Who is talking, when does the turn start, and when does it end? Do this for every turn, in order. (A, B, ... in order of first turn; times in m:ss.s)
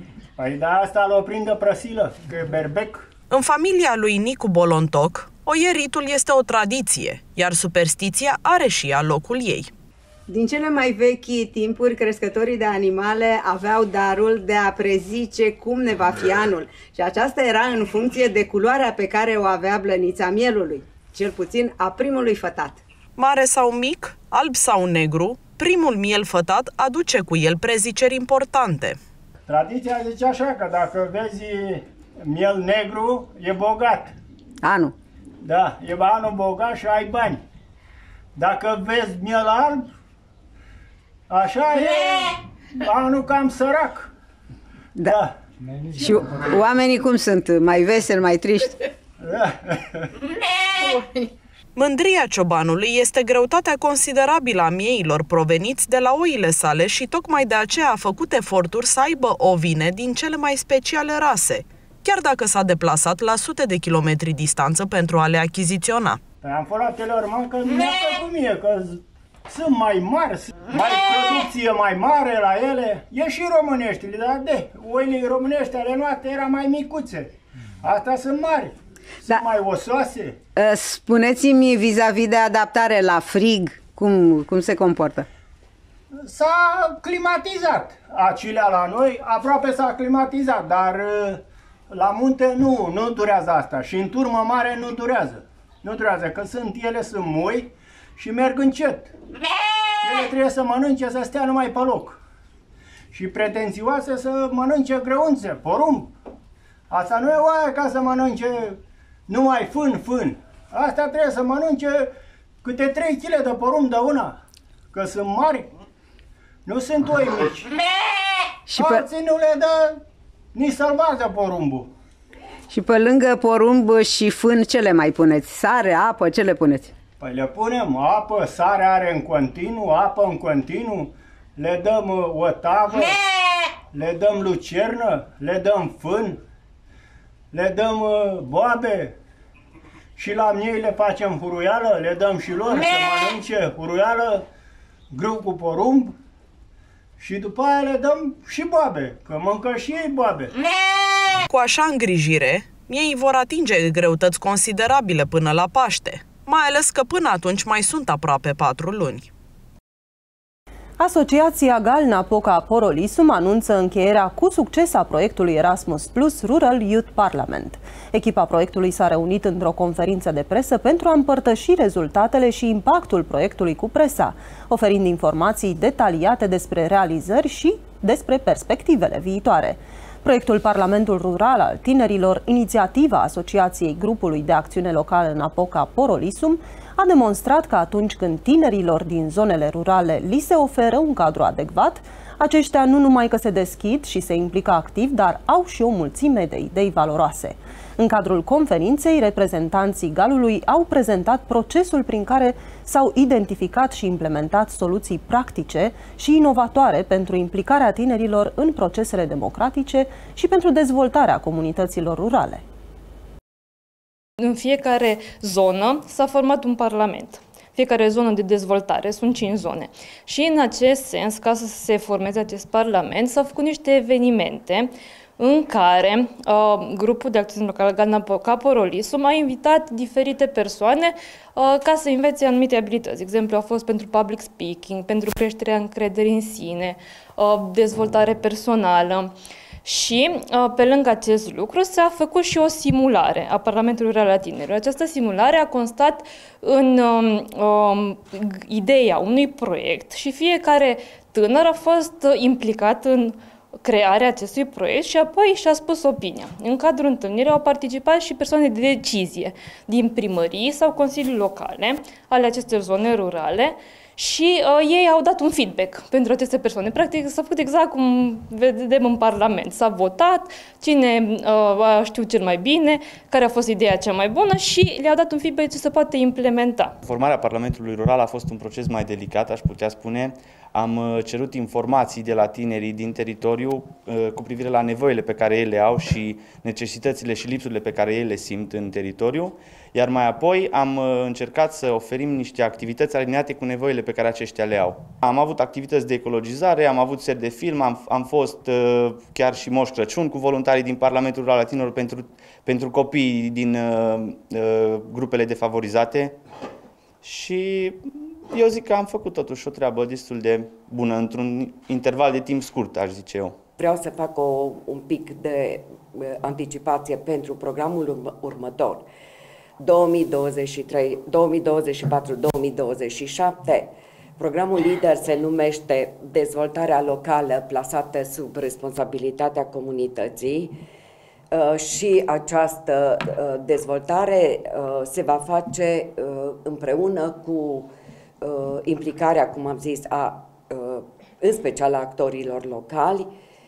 0:00.4-0:03.0 A
0:03.3-0:09.7 B
0:10.3-0:22.8 C
0:23.2-0:29.0 B
0:29.5-0:34.2 A
0:34.6-0:34.9 C
0:35.4-0:37.4 A
0:38.3-0:39.9 A
0:41.3-0:44.1 A
0:46.0-0:48.7 C
0:49.2-0:50.0 A
0:51.7-1:06.2 B
1:06.4-1:17.3 A
1:17.8-1:20.4 A
1:20.6-1:25.2 C
1:26.2-1:39.1 A
1:40.0-1:42.2 A
1:43.1-1:46.1 A
1:46.9-1:48.8 A
1:49.3-1:52.1 A
1:52.6-1:54.4 A
1:54.9-1:55.7 A
1:56.6-1:57.7 A
1:58.7-1:59.0 C
1:58.8-2:00.0 A
2:00.5-2:01.9 A
2:02.7-2:06.9 C
2:07.2-2:13.2 A
2:13.9-2:16.4 A
2:17.5-2:19.1 A
2:20.2-2:24.4 A
2:25.1-2:26.1 A
2:27.2-2:30.5 A
2:31.4-2:39.3 B
2:41.0-3:32.6 D
3:34.4-3:59.3 E
3:59.8-4:36.9 E
4:37.0-5:06.4 F
5:07.2-5:13.6 F
5:13.8-5:19.0 G
5:19.8-5:30.7 G
5:31.5-5:37.9 G
5:38.4-5:43.3 G